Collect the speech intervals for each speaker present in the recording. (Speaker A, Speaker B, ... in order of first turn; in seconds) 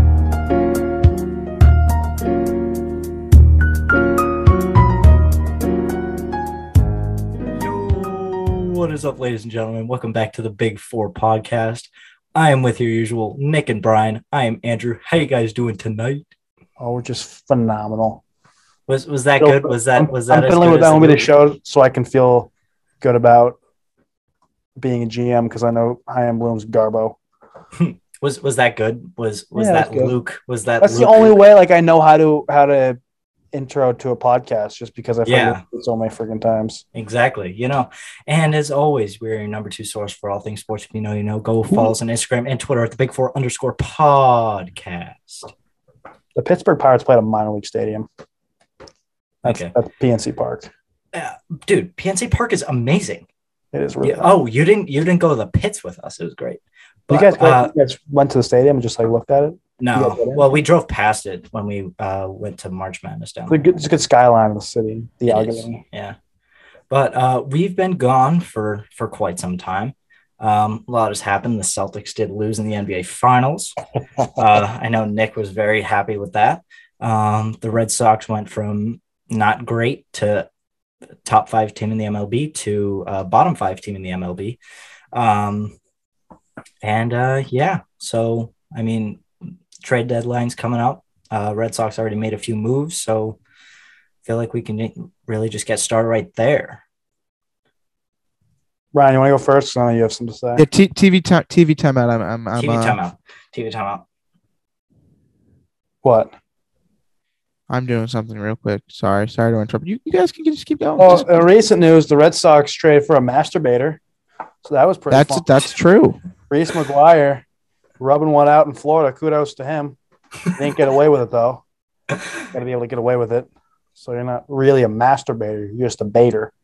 Speaker A: 7.5-16.2, 18.9-21.3, 27.8-31.4, 35.2-35.6, 36.9-45.5, 49.4-49.7, 51.1-53.2, 54.0-57.7, 59.8-63.7, 65.3-66.2, 66.9-80.5, 81.2-84.6, 85.1-85.7, 86.8-89.2, 89.8-93.4, 94.2-96.8, 102.5-104.0
Speaker B: 16.8-18.2, 19.4-23.6, 24.8-27.2, 29.6-30.1, 30.8-33.0, 33.5-36.8, 46.4-48.1, 49.4-50.7, 53.7-54.3, 57.1-60.5, 63.5-65.8, 98.9-100.6, 106.0-106.3, 111.0-114.0, 114.6-115.5, 116.5-117.4, 118.0-120.0, 120.5-121.6, 122.5-126.5
Speaker C: 41.7-41.9, 100.5-103.0, 107.7-111.3, 115.1-116.2